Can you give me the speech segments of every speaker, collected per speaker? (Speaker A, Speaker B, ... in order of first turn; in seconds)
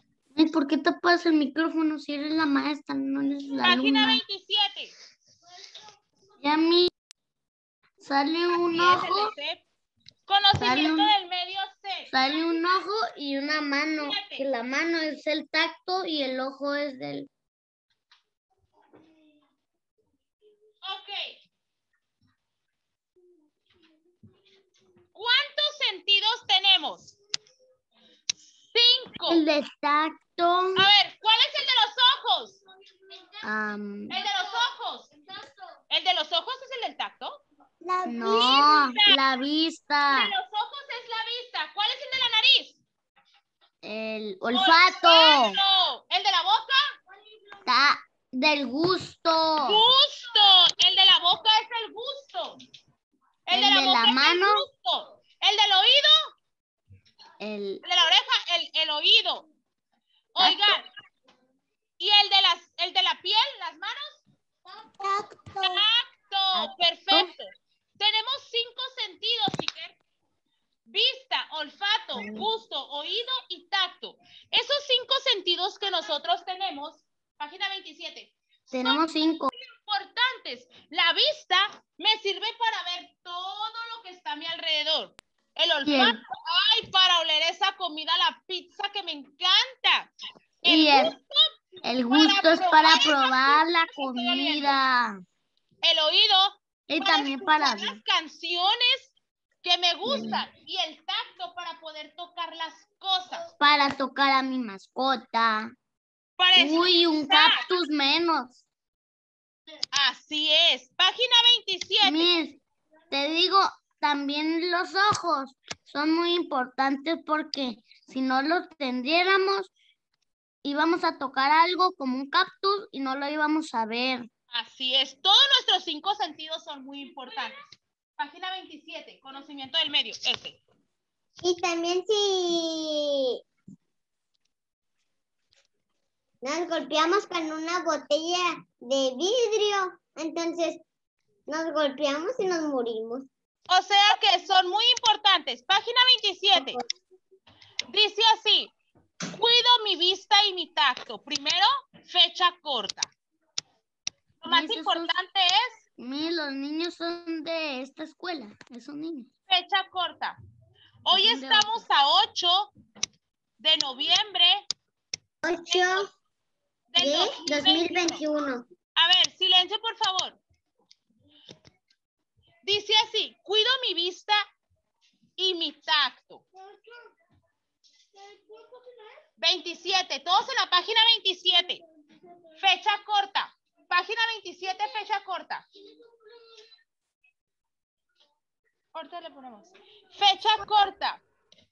Speaker A: 0.3-4.2, 6.4-6.9, 8.0-9.3, 10.6-11.1, 12.1-17.3, 29.3-30.9, 33.4-34.2, 38.1-40.3, 43.8-45.6, 47.7-49.8, 53.5-54.7, 57.4-57.8, 60.4-60.8, 66.5-67.3, 78.7-79.5, 85.8-86.2, 90.7-91.1, 91.8-95.2, 96.9-98.0, 100.1-100.4, 103.6-105.7, 106.6-108.6, 112.0-112.6, 113.1-119.7, 120.6-124.3, 154.5-155.2, 156.0-159.3, 161.1-161.8
Speaker B: 3.6-4.9, 8.5-9.6, 10.3-12.1, 14.0-14.4, 20.8-21.4, 25.1-27.1, 28.7-29.4, 30.8-32.6, 34.1-35.1, 35.9-37.4, 38.2-39.2, 40.1-42.8, 44.5-46.8, 49.6-52.6, 53.5-56.1, 57.8-59.5, 60.4-60.9, 62.0-64.2, 65.6-70.0, 70.9-79.0, 79.8-90.1, 90.6-91.4, 92.1-94.8, 95.8-103.5, 106.4-107.6, 109.9-112.3, 124.5-127.6, 128.2-130.6, 143.7-146.8, 147.9-148.7, 149.4-153.1, 154.4-155.8, 159.5-160.4, 161.1-162.7, 163.6-164.7, 165.7-166.1, 166.9-168.2, 169.0-170.4, 172.6-174.4, 175.4-176.5, 179.4-181.8, 182.6-185.7, 188.9-191.2
Speaker C: 37.8-38.5, 131.4-133.4, 136.4-140.8, 141.5-143.3, 165.4-166.1, 167.0-168.6